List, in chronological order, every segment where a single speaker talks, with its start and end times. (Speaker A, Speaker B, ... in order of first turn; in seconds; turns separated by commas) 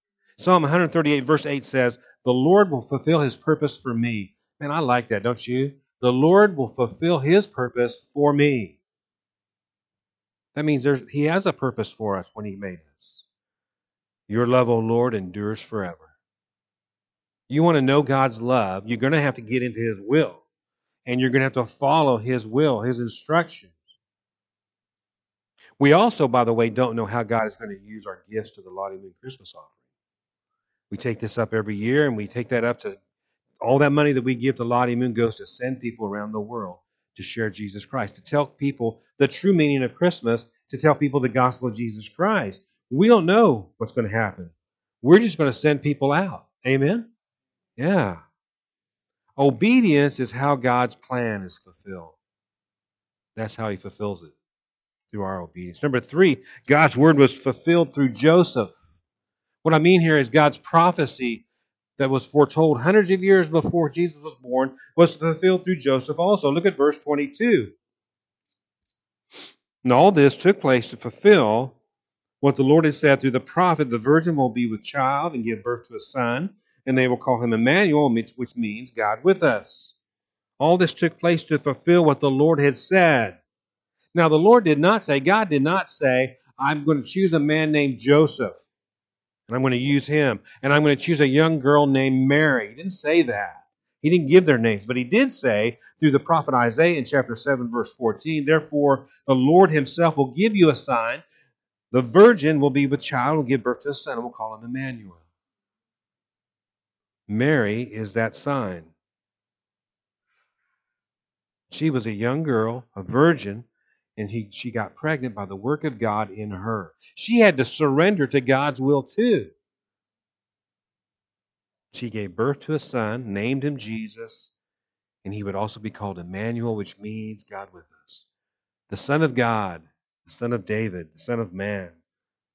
Speaker A: 0.4-8.8, Speaker A: 10.6-13.2, Speaker A: 14.3-16.1, Speaker A: 17.5-20.4, Speaker A: 21.1-23.7, Speaker A: 25.8-29.7, Speaker A: 30.9-33.0, Speaker A: 33.6-47.1, Speaker A: 47.8-48.2, Speaker A: 49.4-52.2, Speaker A: 53.4-54.3, Speaker A: 55.1-58.8, Speaker A: 59.6-61.4, Speaker A: 62.0-67.7, Speaker A: 69.8-71.8, Speaker A: 72.4-80.0, Speaker A: 80.6-83.4, Speaker A: 84.1-88.6, Speaker A: 89.5-101.2, Speaker A: 101.9-105.2, Speaker A: 107.3-108.9, Speaker A: 111.7-119.5, Speaker A: 121.9-124.5, Speaker A: 125.2-128.3, Speaker A: 128.9-131.9